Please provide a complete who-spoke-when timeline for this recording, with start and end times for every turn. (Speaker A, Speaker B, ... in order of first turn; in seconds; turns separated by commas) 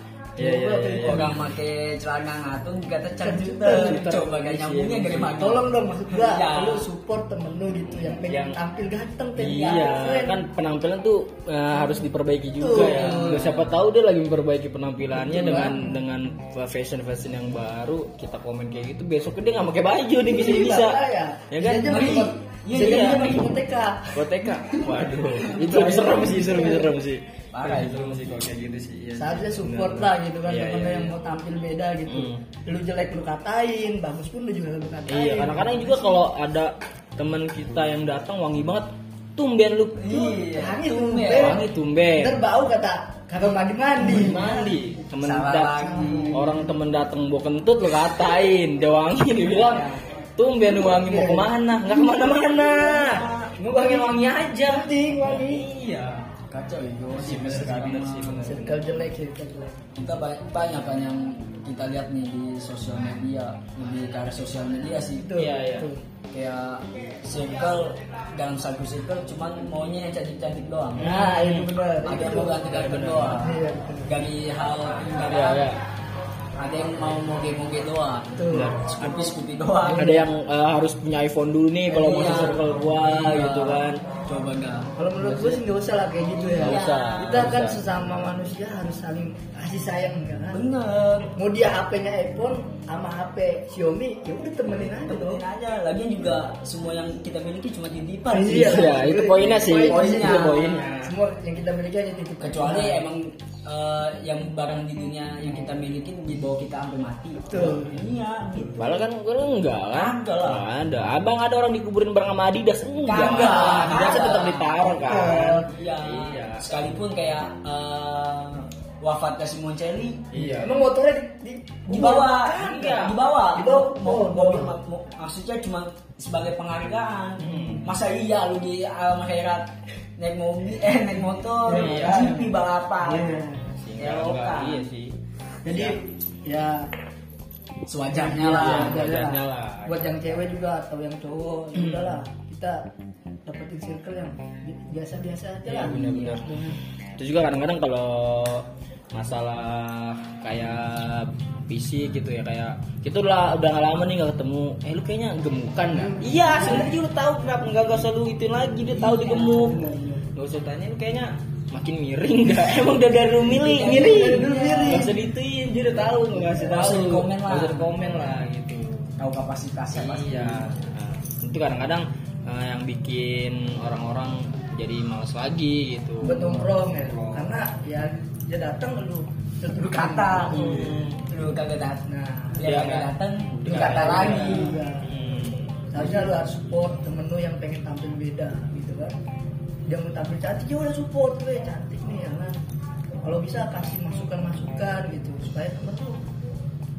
Speaker A: 0.3-1.4, Speaker B: 0.4-1.3, Speaker C: 1.0-6.9, Speaker B: 3.2-4.1, Speaker A: 3.6-5.4, Speaker B: 5.3-10.4, Speaker A: 8.2-8.6, Speaker A: 9.3-22.0, Speaker B: 12.6-13.5, Speaker C: 12.7-13.7, Speaker B: 15.2-15.9, Speaker B: 20.3-25.0, Speaker C: 21.8-23.5, Speaker A: 22.8-23.4, Speaker A: 24.1-31.1, Speaker C: 25.3-26.7, Speaker B: 26.3-26.9, Speaker C: 27.5-27.9, Speaker B: 29.2-36.2, Speaker A: 32.1-32.4, Speaker A: 35.1-40.0, Speaker C: 40.0-41.6, Speaker B: 40.1-41.6, Speaker A: 41.3-42.4, Speaker B: 42.1-44.8, Speaker A: 44.0-56.2, Speaker C: 45.2-46.4, Speaker B: 45.8-46.6, Speaker C: 49.4-50.0, Speaker B: 50.8-51.5, Speaker C: 52.4-53.5, Speaker B: 53.6-55.7, Speaker C: 56.5-58.6, Speaker A: 57.1-58.9, Speaker B: 58.4-59.8, Speaker C: 60.0-65.3, Speaker B: 65.2-66.0, Speaker A: 65.3-65.9, Speaker C: 66.3-71.3, Speaker A: 71.0-71.7, Speaker B: 71.0-72.7, Speaker C: 72.0-73.5, Speaker A: 72.7-73.5, Speaker B: 73.4-74.2, Speaker C: 74.0-75.7, Speaker A: 75.2-75.8, Speaker C: 76.6-80.2, Speaker B: 78.3-78.8, Speaker A: 78.5-79.3, Speaker B: 79.9-80.1, Speaker A: 79.9-84.0, Speaker C: 81.9-84.9, Speaker B: 85.0-90.6, Speaker A: 85.2-85.6, Speaker C: 86.3-87.5, Speaker A: 86.6-87.8, Speaker C: 90.5-91.3, Speaker B: 91.3-95.4, Speaker C: 94.7-100.9, Speaker B: 98.3-103.0, Speaker A: 98.5-101.1, Speaker C: 102.4-109.0, Speaker B: 107.5-108.0, Speaker A: 108.8-116.8, Speaker C: 109.9-110.6, Speaker C: 113.0-120.3, Speaker B: 113.3-114.1, Speaker B: 114.9-115.7, Speaker A: 120.3-120.8, Speaker B: 120.5-122.3, Speaker C: 121.9-133.3, Speaker A: 122.3-123.2, Speaker B: 123.5-124.7, Speaker A: 127.4-127.9, Speaker B: 131.7-132.5, Speaker A: 131.7-132.3, Speaker B: 133.0-133.6, Speaker A: 133.8-136.0, Speaker C: 134.0-134.9, Speaker B: 135.6-136.9, Speaker C: 137.8-139.1, Speaker B: 138.1-142.8, Speaker A: 138.4-140.2, Speaker A: 141.8-142.1, Speaker B: 143.4-146.8, Speaker A: 145.6-146.5, Speaker A: 147.2-169.1, Speaker B: 155.9-156.9, Speaker B: 159.0-160.2, Speaker C: 163.4-165.1, Speaker B: 163.9-165.1, Speaker B: 166.1-166.9, Speaker C: 166.7-167.9, Speaker C: 169.2-170.7, Speaker A: 169.9-177.5, Speaker B: 176.2-180.7, Speaker C: 179.8-184.8, Speaker A: 180.4-181.2, Speaker B: 182.1-182.6, Speaker A: 182.6-186.1, Speaker B: 183.7-185.1, Speaker B: 185.9-189.1, Speaker B: 189.9-192.5, Speaker B: 193.2-196.2